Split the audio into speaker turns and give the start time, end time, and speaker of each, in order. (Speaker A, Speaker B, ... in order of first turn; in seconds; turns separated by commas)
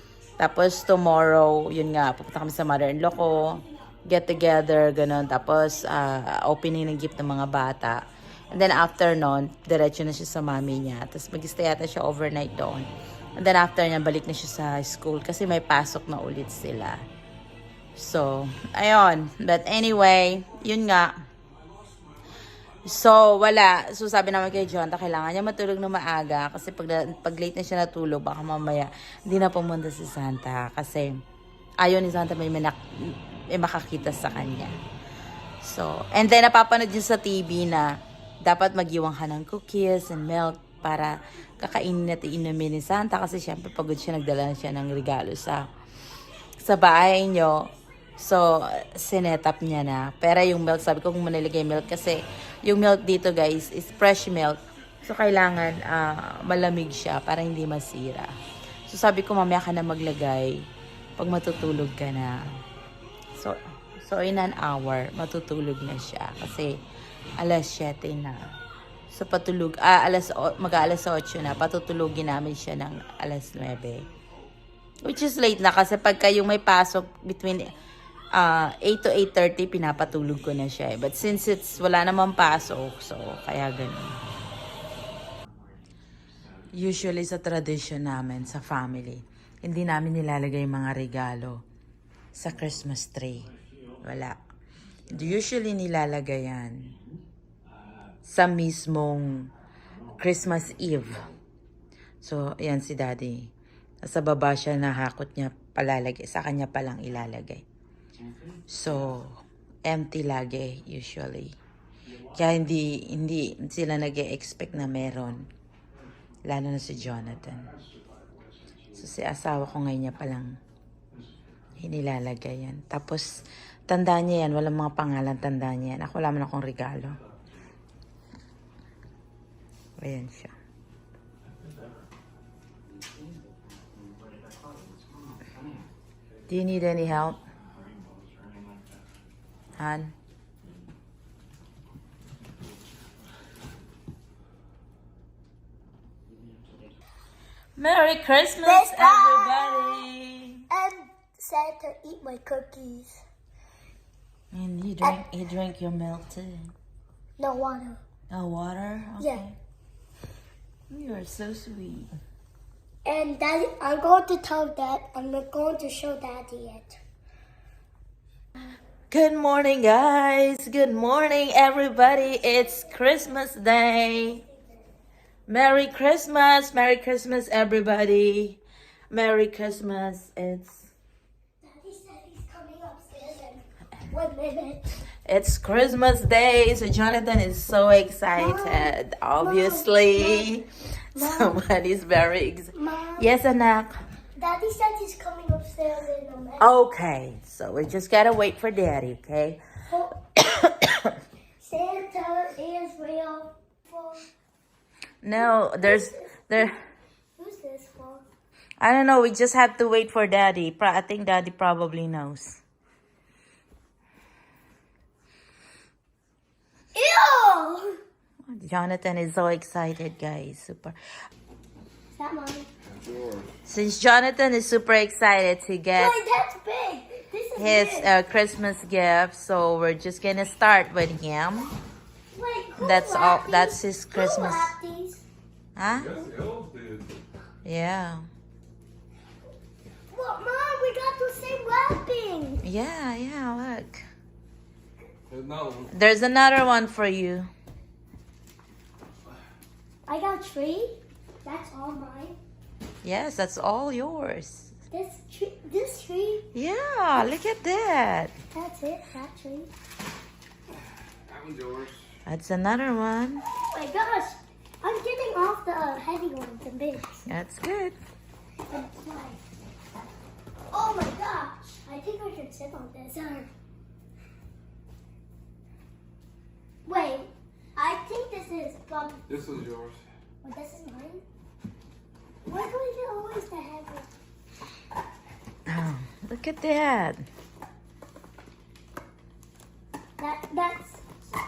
Speaker A: 0.4-17.0, Speaker A: 17.9-21.1, Speaker A: 22.8-31.2, Speaker A: 31.8-34.7, Speaker A: 35.6-37.9, Speaker A: 38.4-45.6, Speaker A: 46.6-58.3, Speaker A: 58.9-60.6, Speaker A: 61.2-62.4, Speaker A: 63.4-66.7, Speaker A: 67.4-68.5, Speaker A: 69.1-74.1, Speaker A: 75.0-77.7, Speaker A: 78.3-84.2, Speaker A: 86.7-91.6, Speaker A: 92.3-94.4, Speaker A: 95.1-96.9, Speaker A: 98.2-99.5, Speaker A: 100.1-101.3, Speaker A: 102.2-103.5, Speaker A: 104.0-107.6, Speaker A: 108.7-111.5, Speaker A: 112.3-115.5, Speaker A: 116.5-117.7, Speaker A: 118.9-120.6, Speaker A: 121.8-127.2, Speaker A: 130.0-130.5, Speaker A: 136.5-137.4, Speaker A: 139.8-140.1, Speaker A: 147.8-150.6, Speaker B: 148.6-150.0, Speaker B: 150.7-153.2, Speaker A: 154.5-156.7, Speaker B: 157.4-158.0, Speaker A: 158.3-159.5, Speaker A: 160.9-162.1, Speaker B: 163.0-167.0, Speaker A: 169.1-174.4, Speaker B: 172.2-173.1, Speaker B: 174.3-174.8, Speaker A: 175.5-178.6, Speaker A: 179.1-180.9, Speaker B: 181.6-185.0, Speaker A: 185.2-193.9, Speaker B: 188.3-190.5, Speaker B: 191.2-191.6, Speaker B: 192.7-193.3, Speaker B: 194.4-196.7, Speaker A: 196.6-199.6, Speaker B: 199.9-200.2, Speaker A: 200.4-201.1, Speaker B: 201.6-204.3, Speaker A: 205.2-206.7, Speaker B: 205.3-206.7, Speaker B: 207.4-208.2, Speaker A: 208.8-212.6, Speaker B: 216.9-217.9, Speaker A: 218.5-220.9, Speaker B: 222.1-222.7, Speaker C: 222.8-223.5, Speaker A: 223.7-226.1, Speaker B: 225.9-228.1, Speaker A: 227.6-231.7, Speaker B: 232.3-235.2, Speaker A: 232.8-234.7, Speaker A: 235.8-236.1, Speaker C: 235.8-237.1, Speaker A: 237.6-238.2, Speaker B: 240.1-242.6, Speaker A: 242.6-244.0, Speaker C: 245.3-245.9, Speaker A: 245.9-247.5, Speaker B: 250.1-252.3, Speaker A: 253.0-254.7, Speaker B: 254.9-256.4, Speaker A: 256.5-258.3, Speaker B: 258.5-259.7, Speaker C: 261.2-262.1, Speaker A: 262.3-263.4, Speaker B: 263.5-267.2, Speaker A: 267.2-267.9, Speaker B: 268.7-269.4, Speaker B: 270.7-273.5, Speaker B: 276.9-279.2, Speaker C: 279.3-280.0, Speaker B: 280.4-281.2, Speaker B: 282.4-284.1, Speaker A: 285.7-287.2, Speaker B: 290.2-291.0